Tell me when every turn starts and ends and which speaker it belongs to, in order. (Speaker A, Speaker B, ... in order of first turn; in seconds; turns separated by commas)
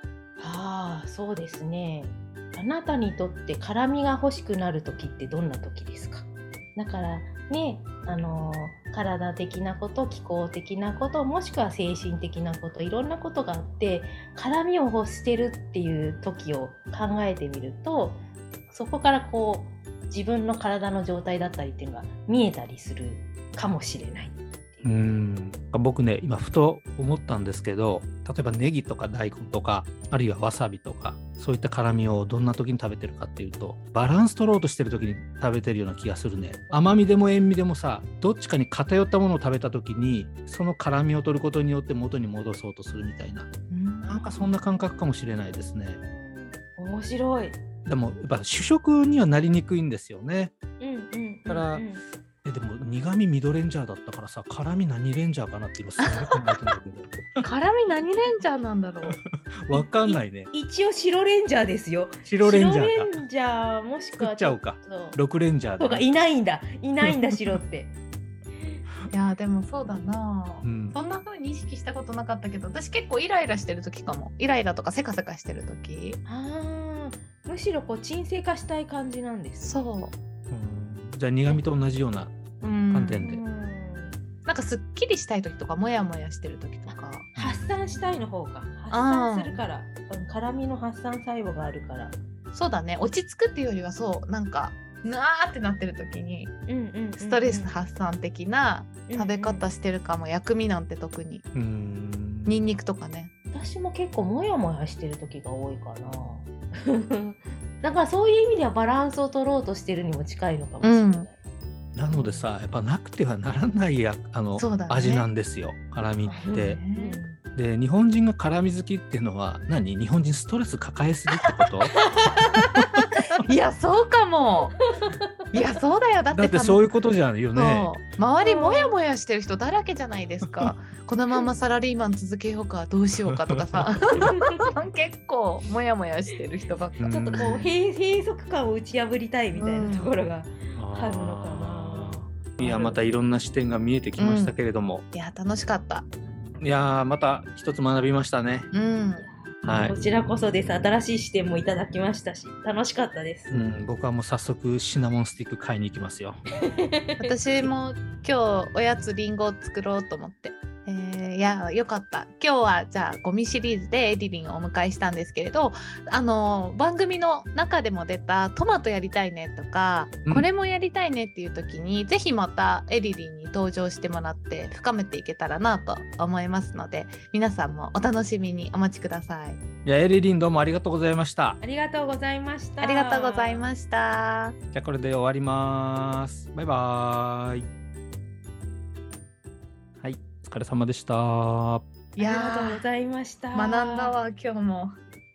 Speaker A: 0.4-25.1, Speaker B: 24.8-43.5, Speaker A: 36.7-37.0, Speaker C: 43.7-44.5, Speaker A: 44.1-44.3, Speaker B: 44.1-46.0, Speaker A: 46.0-47.6, Speaker B: 47.8-50.5, Speaker A: 50.8-52.0, Speaker B: 51.5-51.8, Speaker B: 52.4-57.4, Speaker C: 56.0-56.3, Speaker C: 57.4-59.2, Speaker B: 59.5-60.5, Speaker A: 60.1-65.2, Speaker B: 62.2-63.1, Speaker B: 64.2-66.0, Speaker A: 65.8-67.9, Speaker C: 69.1-76.2, Speaker B: 70.6-71.0, Speaker A: 76.2-79.9, Speaker C: 79.6-80.1, Speaker B: 80.5-82.3, Speaker C: 82.6-83.2, Speaker B: 82.9-83.4, Speaker A: 83.2-84.2, Speaker C: 84.5-87.3, Speaker A: 86.9-92.2, Speaker B: 87.3-87.7, Speaker C: 88.9-89.6, Speaker C: 92.5-96.6, Speaker A: 96.7-97.7, Speaker C: 97.2-101.5, Speaker A: 99.1-99.6, Speaker B: 101.5-102.7, Speaker C: 102.5-103.3, Speaker A: 103.5-111.3, Speaker C: 110.8-111.3, Speaker B: 111.9-116.8, Speaker A: 112.1-112.5, Speaker C: 114.6-115.3, Speaker A: 116.2-117.4, Speaker C: 116.5-117.2, Speaker B: 117.5-122.0, Speaker A: 122.0-122.8, Speaker B: 122.7-123.1, Speaker C: 123.4-124.8, Speaker A: 124.9-125.4, Speaker C: 125.5-126.9, Speaker B: 126.3-127.9, Speaker C: 127.5-137.5, Speaker A: 128.4-128.9, Speaker B: 133.2-133.8, Speaker A: 134.2-134.7, Speaker B: 137.0-137.7, Speaker A: 137.1-143.0, Speaker C: 139.5-140.1, Speaker B: 140.8-145.0, Speaker C: 144.2-144.6, Speaker C: 145.1-146.1, Speaker B: 146.6-148.7, Speaker C: 148.7-149.3, Speaker A: 149.2-153.5, Speaker B: 149.6-149.9, Speaker B: 153.5-156.4, Speaker A: 156.6-157.7, Speaker C: 157.2-179.6, Speaker B: 179.8-181.6, Speaker A: 181.6-183.7, Speaker C: 182.8-184.6, Speaker B: 184.7-187.7, Speaker B: 190.0-191.9, Speaker C: 192.2-192.8, Speaker A: 192.2-194.1, Speaker C: 193.5-195.0